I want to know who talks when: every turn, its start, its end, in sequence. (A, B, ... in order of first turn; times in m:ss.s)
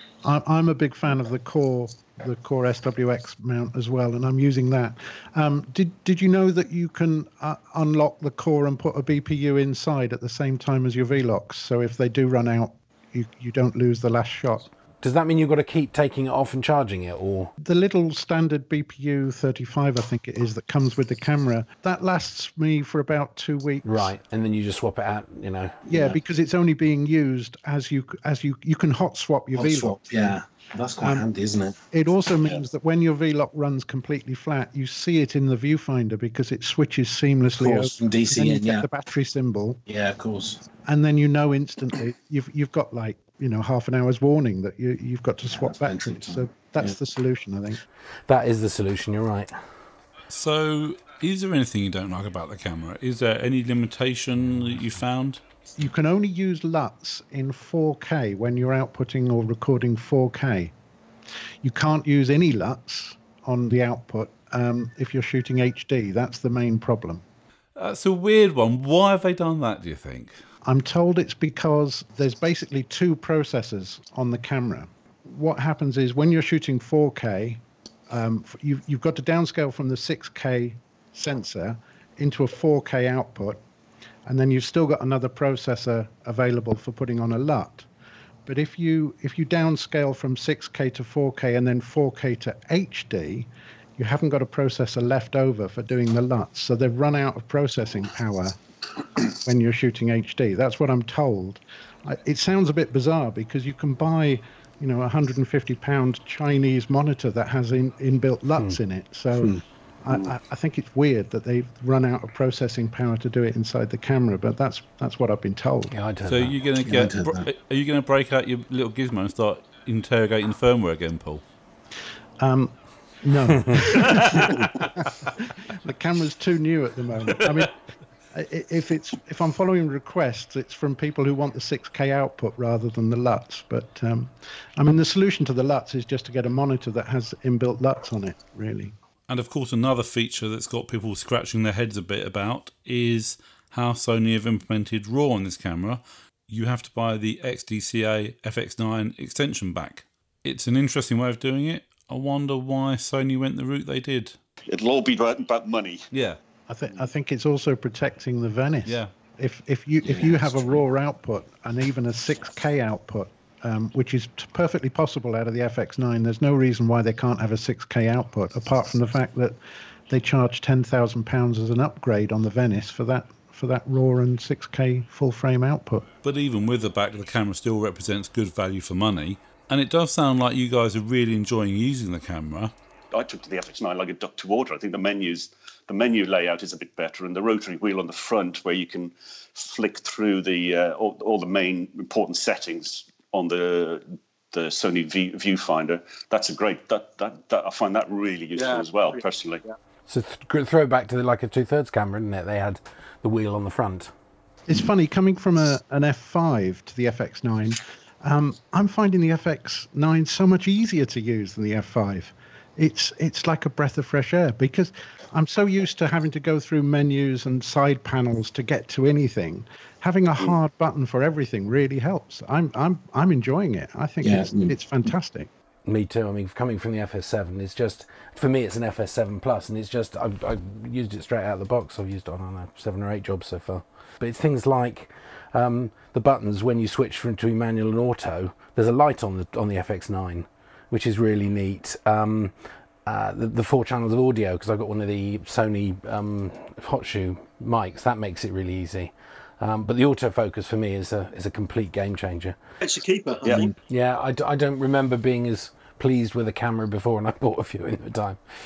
0:00.2-0:14.7 A
0:15.0-0:17.5 B
0:17.6-0:24.1 A
0:23.8-0:26.1 B
0:25.9-0:30.4 A
0:29.5-0:31.8 C
0:31.0-0:31.3 A
0:31.9-0:39.8 A
0:37.6-0:38.8 C
0:39.9-0:40.6 C
0:40.8-0:47.8 A
0:45.5-0:47.0 C
0:48.3-0:49.5 B
0:50.3-0:55.4 D
0:55.8-1:00.7 A
1:01.6-1:07.2 A
1:07.8-1:10.3 D
1:10.6-1:23.6 A
1:24.3-1:27.9 A
1:28.4-1:38.6 A
1:39.3-1:55.9 A
1:55.9-1:56.6 B
1:56.2-2:01.4 D
1:56.8-1:57.5 C
2:02.4-2:07.7 A
2:03.9-2:04.3 D
2:08.3-2:18.9 A
2:19.3-2:34.4 D
2:34.7-2:36.0 E
2:36.1-2:36.4 D
2:36.7-2:49.6 A
2:38.8-2:39.1 D
2:40.0-2:40.8 C
2:50.1-2:56.1 A
2:56.2-3:02.7 D
3:03.1-3:19.6 E
3:18.5-3:19.7 F
3:20.1-3:24.1 B
3:24.7-3:45.5 A
3:44.2-3:44.8 C
3:45.8-4:12.6 B
4:12.8-4:13.7 F
4:13.4-4:13.7 E
4:13.8-4:18.4 B